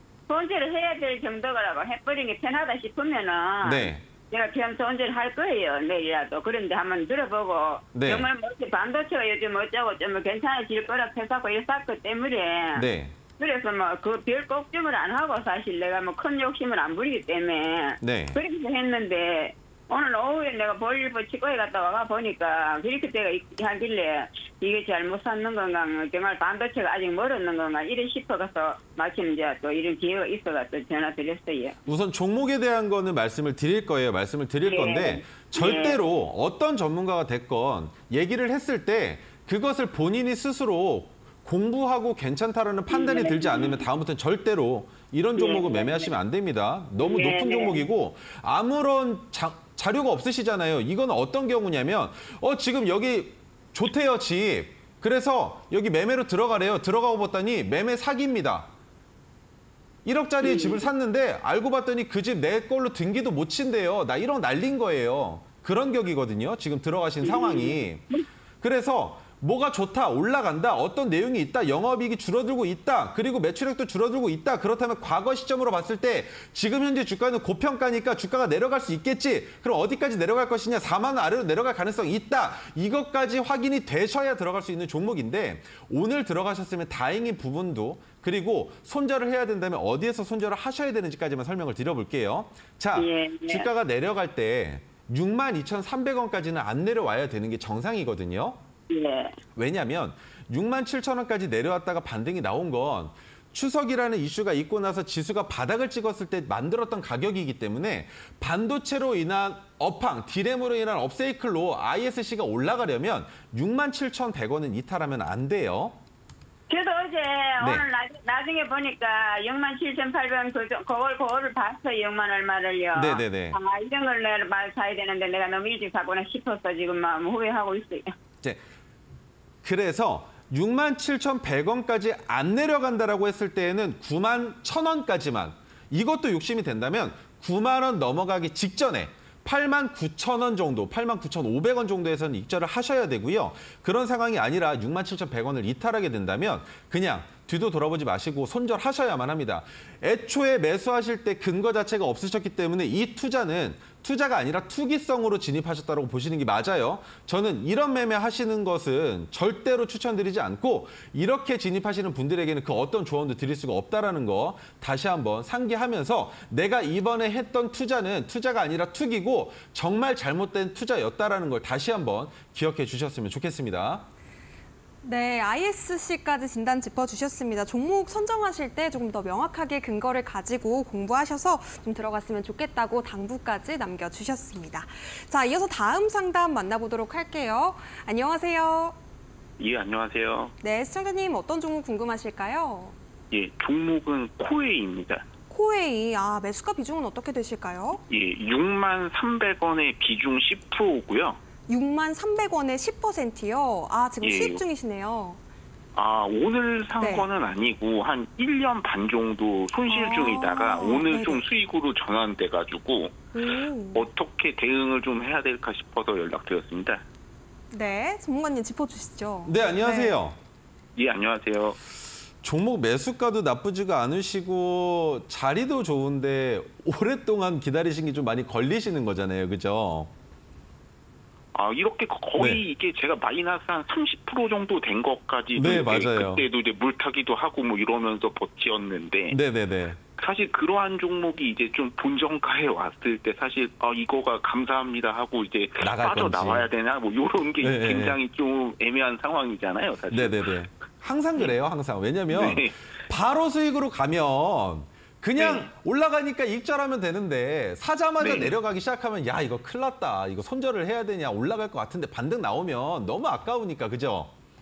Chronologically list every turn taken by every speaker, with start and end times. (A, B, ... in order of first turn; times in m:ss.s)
0:00.3-0:12.8 A
0:03.6-0:04.0 B
0:07.9-0:08.3 B
0:12.7-0:13.1 B
0:13.4-0:31.8 A
0:18.0-0:18.4 B
0:31.8-0:58.7 B
0:34.6-0:36.0 A
0:42.9-0:43.8 A
0:45.4-0:46.1 A
0:47.0-0:47.8 A
1:00.0-1:08.0 B
1:00.4-1:00.8 A
1:07.2-1:08.2 A
1:08.6-1:38.6 B
1:33.0-1:33.7 A
1:38.9-1:39.4 A
1:39.6-1:56.0 B
1:56.7-2:08.1 A
1:57.6-1:57.8 B
2:02.9-2:03.6 B
2:09.6-2:54.1 B
2:55.0-3:09.0 C
3:09.6-3:10.5 D
3:10.6-3:12.9 C
3:13.3-3:15.2 D
3:15.5-3:18.0 C
3:18.1-3:21.4 D
3:21.7-3:25.4 C
3:24.2-3:24.6 D
3:26.0-3:33.2 D
3:27.0-3:27.2 C
3:29.9-3:31.4 C
3:33.3-3:34.1 C
3:33.9-3:37.0 D
3:37.7-3:40.2 C
3:39.4-3:40.4 B
3:41.0-3:41.8 D
3:42.4-3:50.1 B
3:51.5-3:59.4 D
3:52.4-3:52.6 B
3:55.5-3:56.4 B
3:59.3-4:00.0 B
4:00.1-4:10.4 D
4:05.8-4:06.7 B
4:07.6-4:08.2 B
4:10.1-4:24.3 B
4:12.3-4:12.7 D
4:15.4-4:15.7 D
4:18.2-4:18.5 D